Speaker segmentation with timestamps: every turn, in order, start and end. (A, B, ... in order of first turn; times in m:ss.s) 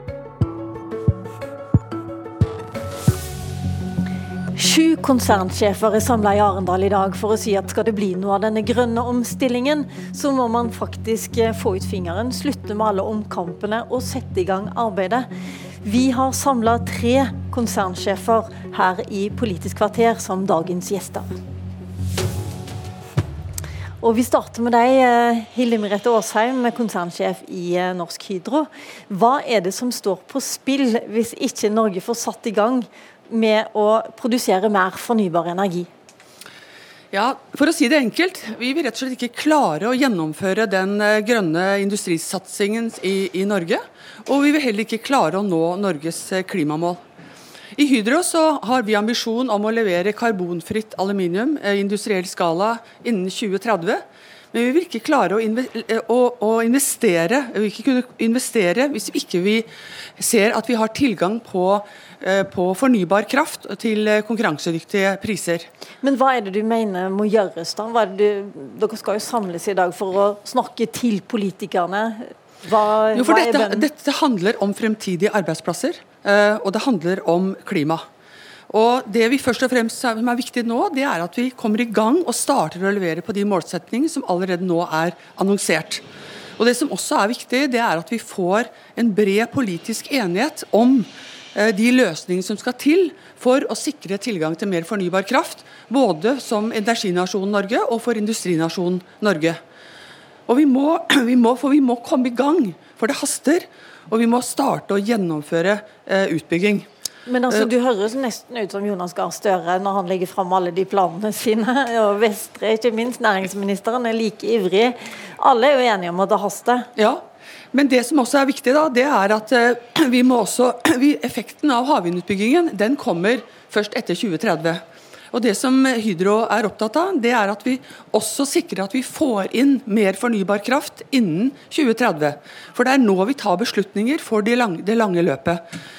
0:04.6-0:15.3 A
0:15.8-0:21.3 A
0:24.0-0:35.9 A
0:37.1-0:47.0 B
0:47.8-0:54.0 B
0:54.5-0:59.7 B
1:00.2-1:05.7 B
1:06.0-1:13.9 A
1:13.1-1:18.0 B
1:18.7-1:26.0 B
1:26.6-1:39.6 B
1:40.5-1:46.9 B
1:47.3-1:56.9 A
1:57.0-1:57.2 B
1:57.7-2:15.6 B